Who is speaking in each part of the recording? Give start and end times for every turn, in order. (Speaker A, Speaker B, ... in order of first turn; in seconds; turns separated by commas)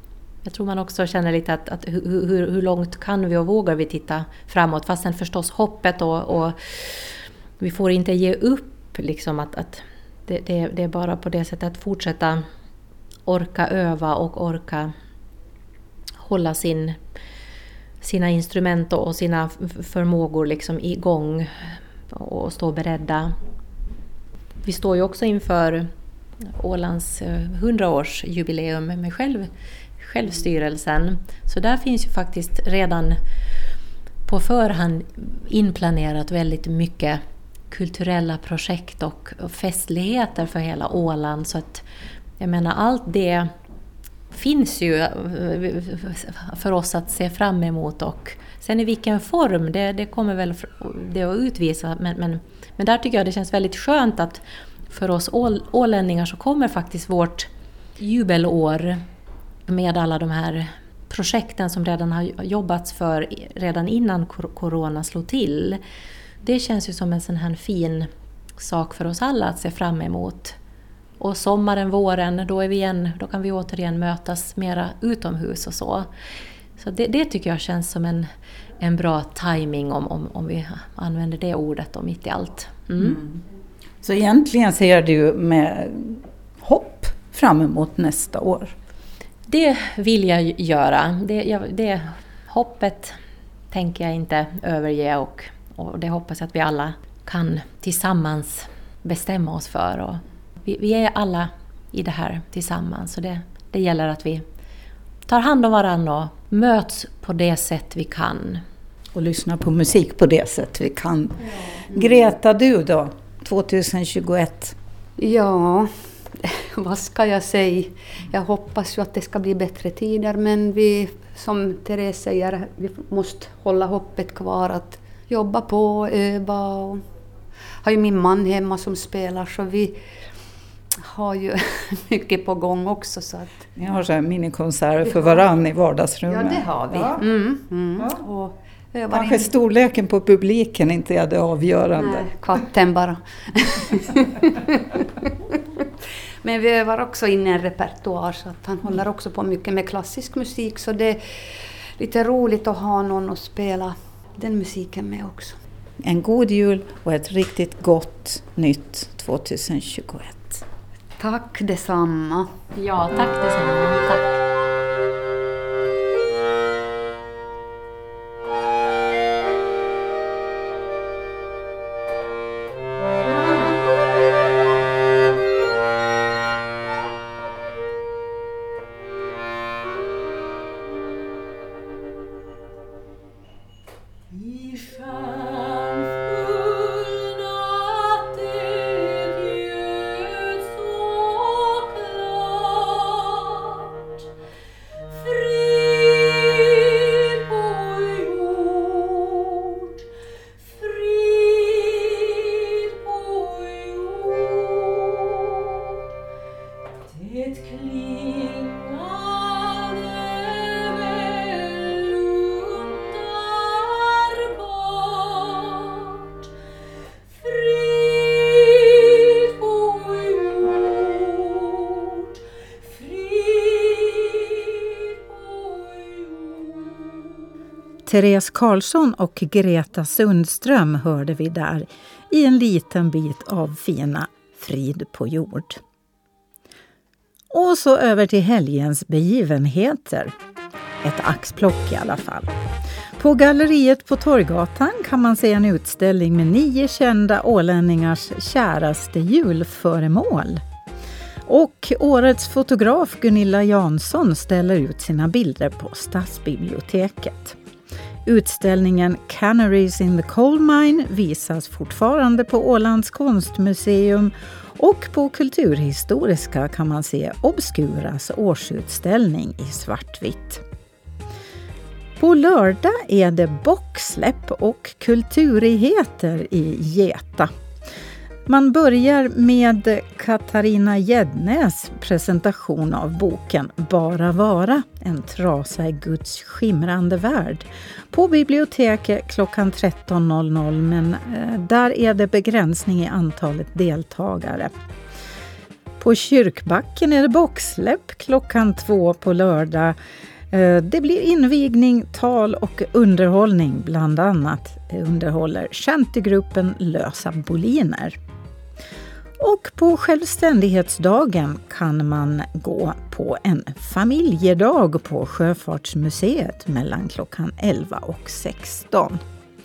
Speaker A: 0.4-12.4, Speaker A: 13.2-14.9, Speaker A: 16.2-17.0, Speaker A: 18.0-23.3, Speaker A: 24.6-25.9, Speaker A: 26.5-33.2, Speaker A: 34.2-41.8, Speaker A: 42.4-43.5, Speaker A: 44.3-59.0, Speaker A: 59.6-65.8, Speaker A: 66.4-70.6, Speaker A: 71.2-76.1, Speaker A: 76.8-83.2, Speaker B: 83.0-83.3, Speaker B: 84.0-88.7, Speaker A: 89.5-93.2, Speaker A: 93.7-104.4, Speaker A: 105.3-108.6, Speaker B: 109.1-114.7, Speaker C: 111.9-112.2, Speaker C: 115.2-127.0, Speaker C: 127.8-133.7, Speaker B: 133.8-137.2, Speaker C: 135.0-135.5, Speaker C: 136.2-139.5, Speaker B: 139.1-142.2, Speaker C: 141.9-145.0, Speaker C: 146.4-155.6, Speaker B: 156.0-160.6, Speaker C: 161.2-162.6, Speaker A: 162.7-164.3, Speaker B: 185.1-185.4, Speaker B: 198.7-199.0, Speaker B: 207.6-208.1, Speaker B: 228.1-235.8, Speaker B: 237.5-240.3, Speaker B: 241.0-242.5, Speaker B: 243.2-250.6, Speaker B: 251.4-257.6, Speaker B: 258.2-270.6, Speaker B: 272.2-277.5, Speaker B: 278.4-294.7, Speaker B: 296.0-299.9, Speaker B: 300.5-308.2, Speaker B: 309.4-319.2